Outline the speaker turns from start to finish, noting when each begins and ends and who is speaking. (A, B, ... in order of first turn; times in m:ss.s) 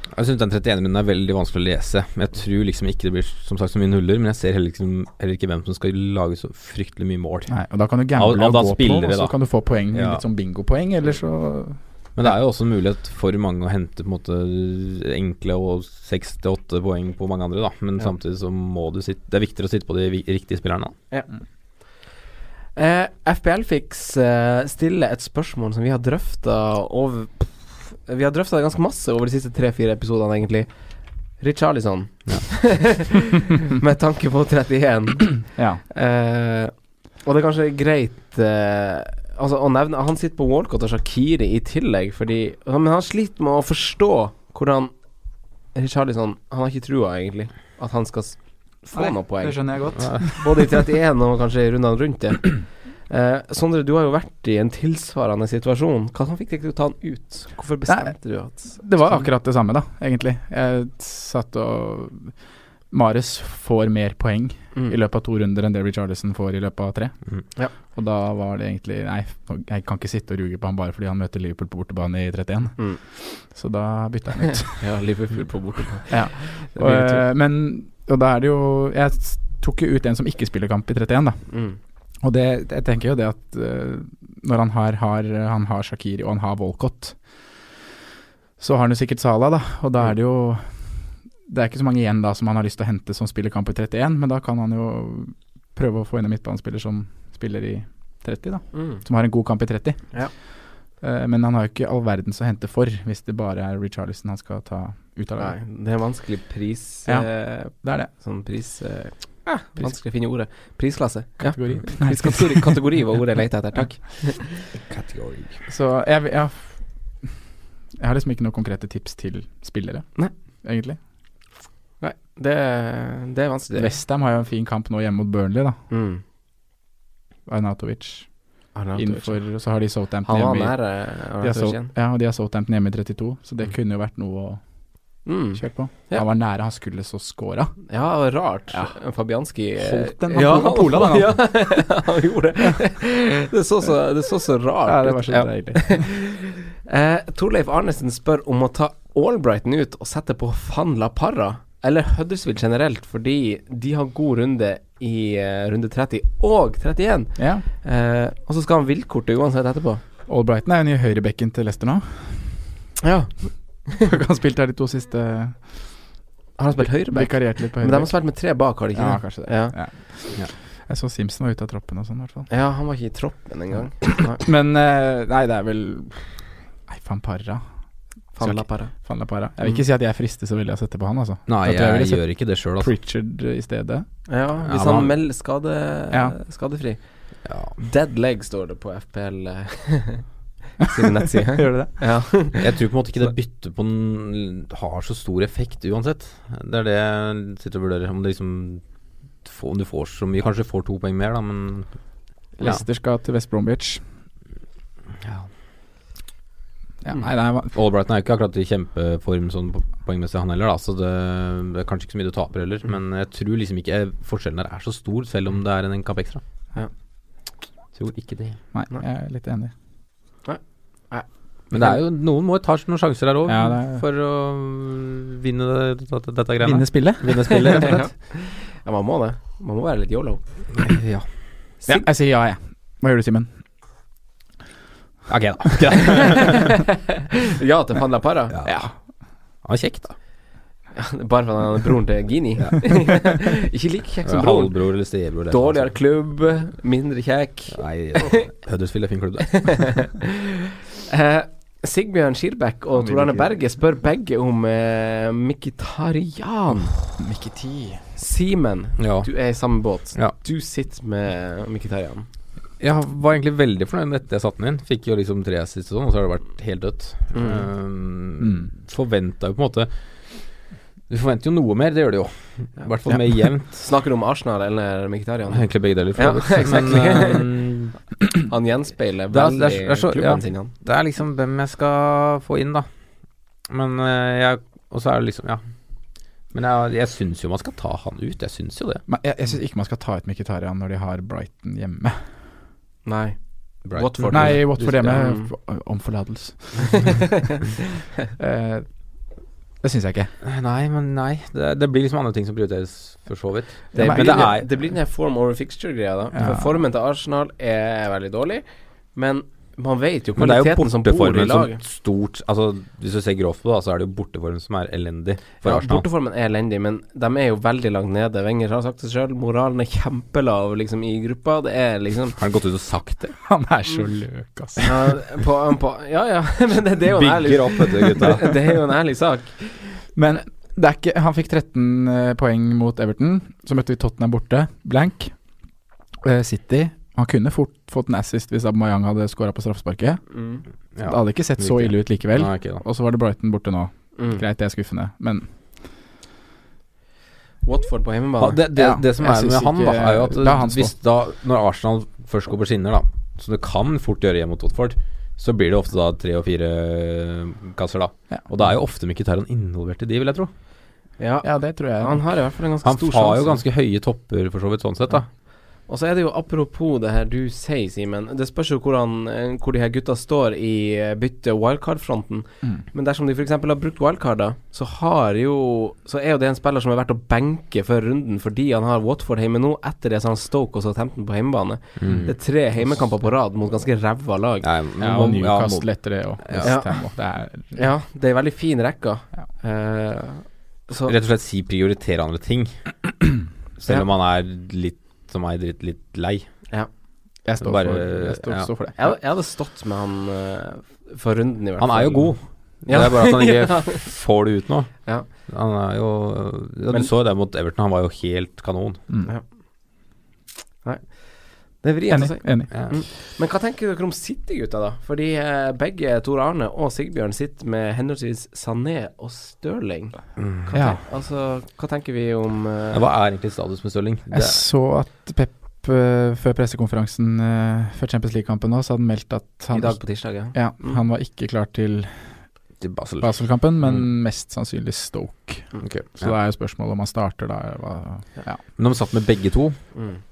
0:00.1-0:07.6 A
0:07.5-0:11.8 B
0:08.1-0:09.4 A
0:09.9-0:10.2 A
0:12.2-0:20.9 A
0:22.8-0:30.7 C
0:31.4-0:44.9 C
0:32.3-0:32.5 A
0:35.5-0:35.8 B
0:45.7-0:59.2 C
0:48.9-0:50.5 B
0:50.0-0:50.2 A
0:57.9-1:02.4 B
1:02.9-1:14.8 B
1:14.6-1:17.2 C
1:16.1-1:21.5 B
1:21.5-1:21.8 C
1:22.2-1:27.2 B
1:28.6-1:30.9 B
1:31.5-1:40.4 B
1:38.7-1:39.0 C
1:41.0-1:45.6 B
1:45.4-1:54.6 C
1:47.1-1:48.1 B
1:51.4-1:52.8 B
1:54.9-1:55.6 A
1:55.7-1:56.8 B
1:58.0-2:01.0 B
2:02.0-2:04.0 C
2:03.8-2:05.8 B
2:05.9-2:06.2 C
2:07.5-2:08.3 B
2:08.7-2:09.4 C
2:08.9-2:14.6 B
2:10.2-2:11.9 C
2:15.2-2:16.2 C
2:15.6-2:17.7 B
2:17.9-2:40.0 C
2:18.7-2:18.9 B
2:19.8-2:21.6 B
2:24.9-2:26.1 B
2:37.4-2:37.6 B
2:40.3-2:42.6 B
2:43.0-2:44.1 C
2:44.0-2:46.1 B
2:46.6-2:49.7 C
2:46.8-2:52.5 B
2:52.5-2:54.4 C
2:54.3-2:57.6 B
2:58.3-3:04.1 B
2:58.4-2:58.9 C
3:01.5-3:02.9 A
3:04.3-3:10.2 C
3:04.6-3:05.1 A
3:06.1-3:06.4 B
3:07.4-3:07.8 A
3:10.9-3:12.7 C
3:11.4-3:12.0 B
3:12.5-3:18.8 A
3:19.4-3:22.0 A
3:22.6-3:24.0 B
3:25.2-3:25.5 A
3:27.0-3:27.8 B
3:27.7-3:36.4 A
3:37.9-3:38.6 A
3:38.7-3:39.7 B
3:40.4-3:41.3 C
3:41.7-3:48.1 A
3:43.4-3:44.0 B
3:46.6-3:47.8 B
3:47.7-3:50.4 C
3:50.8-3:51.3 A
3:51.9-3:53.5 B
3:55.3-3:56.7 A
3:57.5-3:58.5 C
3:58.5-3:58.8 A
3:58.6-3:58.9 B
3:59.6-4:00.2 A
4:00.9-4:08.4 C
4:04.2-4:06.0 A
4:07.7-4:09.9 A
4:09.5-4:10.3 C
4:11.1-4:16.9 C
4:13.0-4:13.5 B
4:17.2-4:18.1 B
4:18.2-4:22.2 C
4:19.0-4:19.3 A
4:22.8-4:33.8 A
4:27.3-4:27.6 C
4:28.4-4:28.7 B
4:33.5-4:37.5 C
4:35.5-4:37.9 A
4:38.5-4:40.7 C
4:39.3-4:42.9 A
4:43.7-4:45.6 A
4:46.5-4:49.0 A
4:49.1-4:52.2 B
4:53.1-4:55.5 C
4:53.9-4:55.2 A
4:54.3-4:57.2 B
4:56.9-4:57.2 C
4:58.4-4:58.9 B
4:59.8-5:00.3 B
5:00.4-5:04.7 A
5:03.9-5:11.8 C
5:04.0-5:04.6 B
5:06.4-5:06.8 B
5:10.4-5:16.1 A
5:15.6-5:22.4 C
5:22.4-5:23.4 A
5:23.4-5:25.1 B
5:24.8-5:30.0 C
5:27.1-5:28.6 A
5:30.1-5:35.4 B
5:36.2-5:40.2 B
5:40.3-5:40.6 C
5:41.0-5:42.8 A
5:41.0-5:45.5 B
5:44.2-5:44.4 C
5:47.6-5:48.6 C
5:48.4-6:00.5 A
5:48.7-5:50.9 B
6:01.2-6:03.6 C
6:01.4-6:02.2 B
6:02.8-6:05.3 A
6:05.9-6:24.6 C
6:22.0-6:22.4 A
6:22.1-6:22.4 B
6:24.6-6:26.7 A
6:25.0-6:27.8 B
6:26.6-6:26.9 C
6:27.7-6:31.1 C
6:31.1-6:32.9 A
6:33.8-6:36.5 A
6:37.4-6:39.0 B
6:37.6-6:38.7 A
6:39.0-6:44.0 C
6:41.8-6:49.0 A
6:50.8-7:03.0 C
6:52.1-6:52.8 B
6:52.7-6:53.0 A
7:00.4-7:00.7 A
7:00.7-7:01.0 B
7:02.9-7:04.6 A
7:04.3-7:12.4 B
7:09.7-7:11.0 C
7:12.8-7:13.3 A
7:13.2-7:18.6 B
7:15.8-7:16.4 A
7:18.8-7:19.8 A